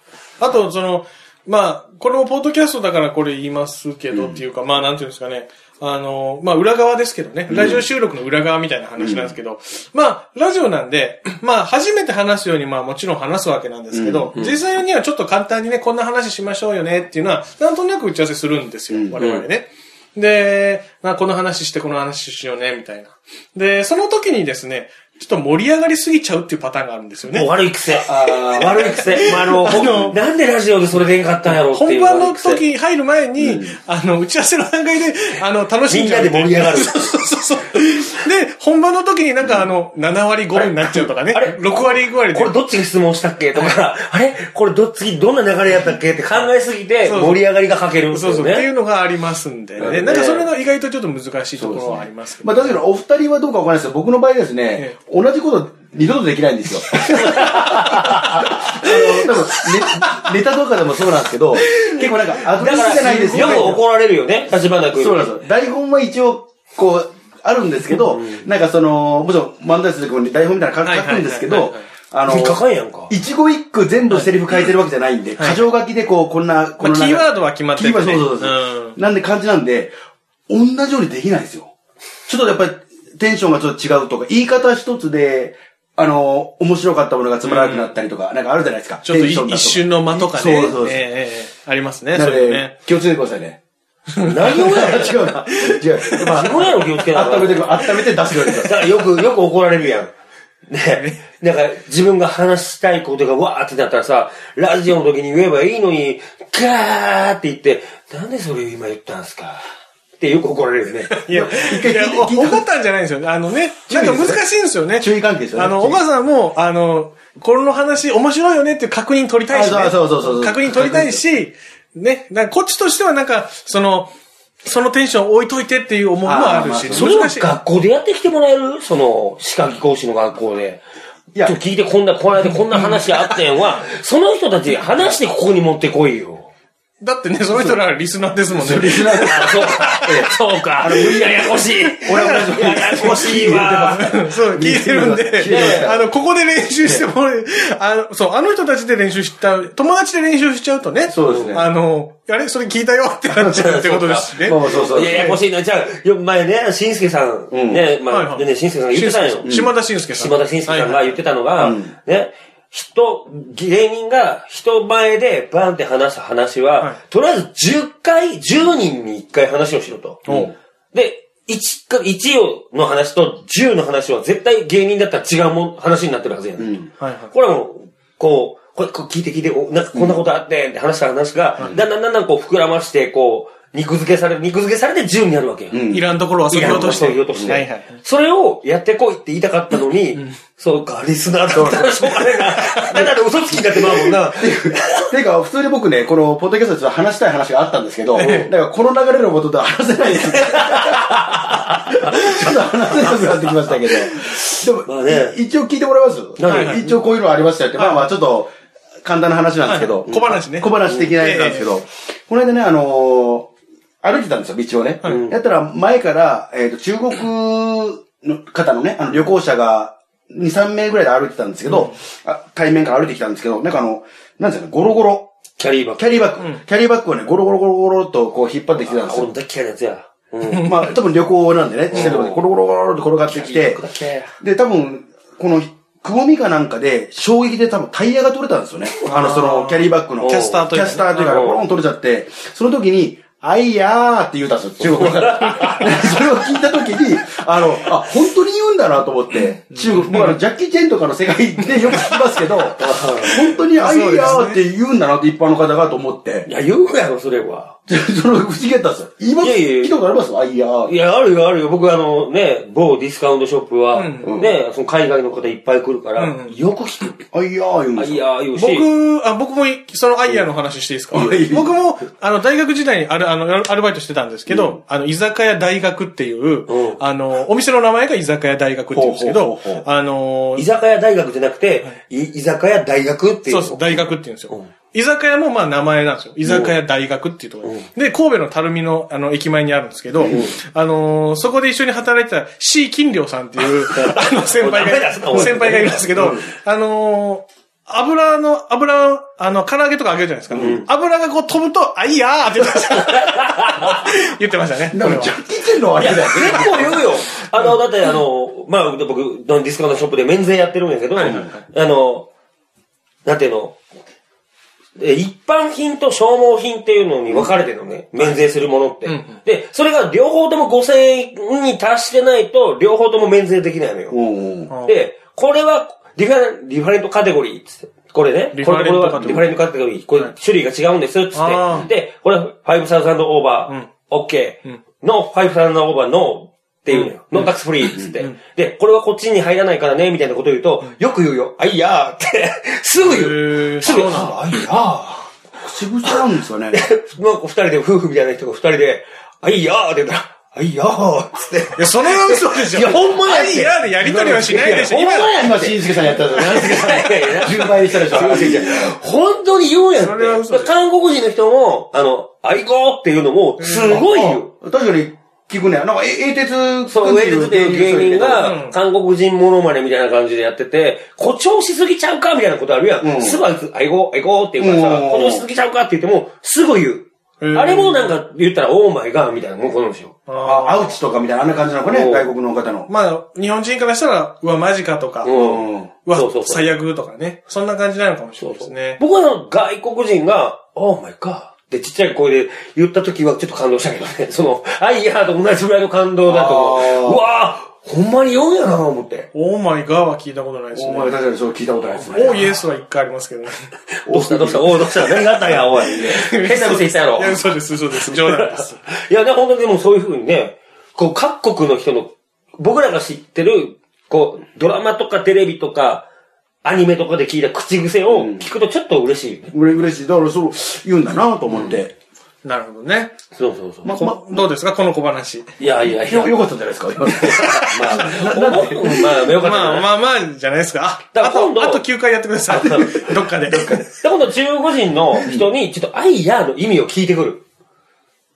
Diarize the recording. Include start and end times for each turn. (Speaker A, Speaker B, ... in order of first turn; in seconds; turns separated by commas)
Speaker A: 0.4-27.5, Speaker B: 4.1-4.4, Speaker B: 7.5-7.8, Speaker B: 9.0-9.3, Speaker B: 13.9-14.4, Speaker B: 18.9-19.2, Speaker C: 19.2-19.4, Speaker C: 27.3-32.6, Speaker B: 28.0-30.1, Speaker A: 28.3-30.2, Speaker A: 31.7-42.5, Speaker B: 33.4-33.7, Speaker C: 35.9-37.1, Speaker C: 40.5-48.7, Speaker A: 43.5-43.8, Speaker A: 47.0-47.5, Speaker A: 48.1-52.8, Speaker B: 49.8-50.2, Speaker C: 49.8-50.5, Speaker B: 51.6-63.8, Speaker A: 56.9-60.3, Speaker C: 57.2-58.3, Speaker A: 61.8-62.1, Speaker C: 62.6-65.3, Speaker A: 62.7-63.8, Speaker B: 64.9-79.9, Speaker C: 68.1-68.5, Speaker A: 70.8-71.8, Speaker C: 72.2-73.1, Speaker A: 75.4-75.7, Speaker A: 76.8-79.0, Speaker B: 80.5-81.7, Speaker B: 82.3-91.0, Speaker A: 87.4-88.0, Speaker A: 89.0-92.8, Speaker B: 92.1-93.6, Speaker A: 94.2-94.7, Speaker C: 94.2-95.2, Speaker B: 94.5-99.2, Speaker A: 95.7-96.3, Speaker C: 96.3-100.1, Speaker C: 100.7-109.7, Speaker A: 100.9-101.2, Speaker C: 110.2-111.2, Speaker A: 111.1-124.1, Speaker B: 111.3-112.7, Speaker B: 113.9-116.0, Speaker B: 119.5-121.2, Speaker A: 124.6-127.5, Speaker B: 126.2-127.1, Speaker C: 126.9-130.8, Speaker C: 131.4-136.5, Speaker A: 132.7-133.0, Speaker A: 137.0-140.1, Speaker B: 137.5-137.8, Speaker B: 138.5-140.3, Speaker C: 139.2-144.1, Speaker B: 140.8-146.1, Speaker A: 141.9-155.3, Speaker C: 145.4-145.9, Speaker B: 146.8-147.1, Speaker B: 151.1-151.7, Speaker C: 151.2-151.6, Speaker C: 153.3-159.5, Speaker B: 154.4-155.4, Speaker B: 157.5-157.8, Speaker A: 158.1-161.2, Speaker B: 159.4-159.7, Speaker C: 160.1-170.3, Speaker B: 161.6-161.9, Speaker B: 170.3-170.5, Speaker C: 170.9-176.8, Speaker B: 176.6-176.9, Speaker A: 177.0-177.3, Speaker C: 177.3-185.8, Speaker B: 179.9-180.2, Speaker B: 181.6-181.8, Speaker B: 185.7-187.6, Speaker A: 185.9-188.0, Speaker C: 186.5-195.1, Speaker B: 191.5-192.2, Speaker A: 192.6-193.1, Speaker B: 194.0-201.6, Speaker A: 198.2-198.5, Speaker C: 198.2-198.5, Speaker C: 200.5-205.4, Speaker B: 202.1-208.5, Speaker C: 206.4-207.0, Speaker A: 206.4-206.9, Speaker A: 207.8-208.1, Speaker B: 209.0-213.5, Speaker A: 209.6-211.8, Speaker B: 214.0-225.3, Speaker C: 215.0-215.4, Speaker A: 221.7-221.9, Speaker C: 225.6-226.2, Speaker B: 226.0-229.3, Speaker C: 228.8-230.7, Speaker A: 230.5-230.8, Speaker B: 230.6-233.8, Speaker C: 231.9-232.4, Speaker C: 233.3-234.3, Speaker B: 234.4-256.5, Speaker A: 239.1-241.6, Speaker C: 240.2-241.6, Speaker C: 244.8-246.1, Speaker A: 245.6-245.9, Speaker A: 249.7-250.4, Speaker C: 252.8-253.6, Speaker A: 253.3-254.6, Speaker C: 256.4-257.8, Speaker B: 257.9-260.9, Speaker C: 259.4-260.0, Speaker C: 260.9-267.2, Speaker A: 263.9-264.4, Speaker B: 264.2-264.5, Speaker A: 266.2-266.6, Speaker B: 267.3-268.2, Speaker C: 267.9-268.9, Speaker A: 268.6-280.7, Speaker B: 271.1-271.7, Speaker B: 274.5-274.8, Speaker C: 276.7-277.0, Speaker B: 278.9-279.9, Speaker C: 280.6-284.7, Speaker A: 283.5-305.4, Speaker C: 286.4-286.7, Speaker C: 287.6-287.9, Speaker B: 290.2-290.5, Speaker C: 290.2-290.6, Speaker C: 293.8-296.2, Speaker B: 296.1-296.4, Speaker B: 300.5-300.8, Speaker C: 300.5-300.9, Speaker C: 302.8-304.1, Speaker B: 304.9-307.0, Speaker C: 306.0-312.3, Speaker A: 306.4-307.0, Speaker A: 311.2-311.6, Speaker C: 313.2-313.8, Speaker C: 314.9-324.2, Speaker A: 319.1-319.4, Speaker B: 324.1-324.7, Speaker A: 324.7-325.0, Speaker C: 324.8-345.3, Speaker A: 328.6-329.5, Speaker A: 331.3-331.9, Speaker A: 336.9-338.4, Speaker A: 343.0-344.5, Speaker B: 343.9-344.3, Speaker B: 345.6-346.8, Speaker C: 346.7-364.5, Speaker A: 351.8-355.4, Speaker B: 355.3-358.8, Speaker A: 356.4-357.0, Speaker A: 360.0-360.7, Speaker A: 363.6-364.0, Speaker B: 363.9-368.5, Speaker C: 366.9-380.1, Speaker A: 368.4-368.8, Speaker B: 373.0-373.4, Speaker B: 374.6-375.4, Speaker A: 377.4-378.2, Speaker A: 380.3-381.0, Speaker B: 380.4-382.9, Speaker C: 381.8-382.3, Speaker A: 382.9-385.4, Speaker C: 385.2-386.7, Speaker B: 385.3-385.9, Speaker A: 386.1-389.0, Speaker C: 388.4-399.3, Speaker B: 396.2-397.2, Speaker A: 399.3-401.2, Speaker B: 400.7-402.6, Speaker A: 401.9-403.5, Speaker C: 404.0-416.1, Speaker B: 404.1-406.3, Speaker A: 405.5-408.9, Speaker C: 416.6-419.5, Speaker B: 418.1-418.5, Speaker B: 419.5-421.9, Speaker C: 421.5-421.8, Speaker A: 422.4-423.1, Speaker C: 423.4-423.9, Speaker B: 423.8-424.5, Speaker A: 423.9-425.6, Speaker C: 425.6-426.4, Speaker B: 425.8-429.3, Speaker C: 427.2-429.9, Speaker A: 427.2-427.9, Speaker A: 429.4-433.8, Speaker C: 431.1-431.8, Speaker C: 432.5-437.4, Speaker B: 432.5-433.8, Speaker B: 435.2-435.5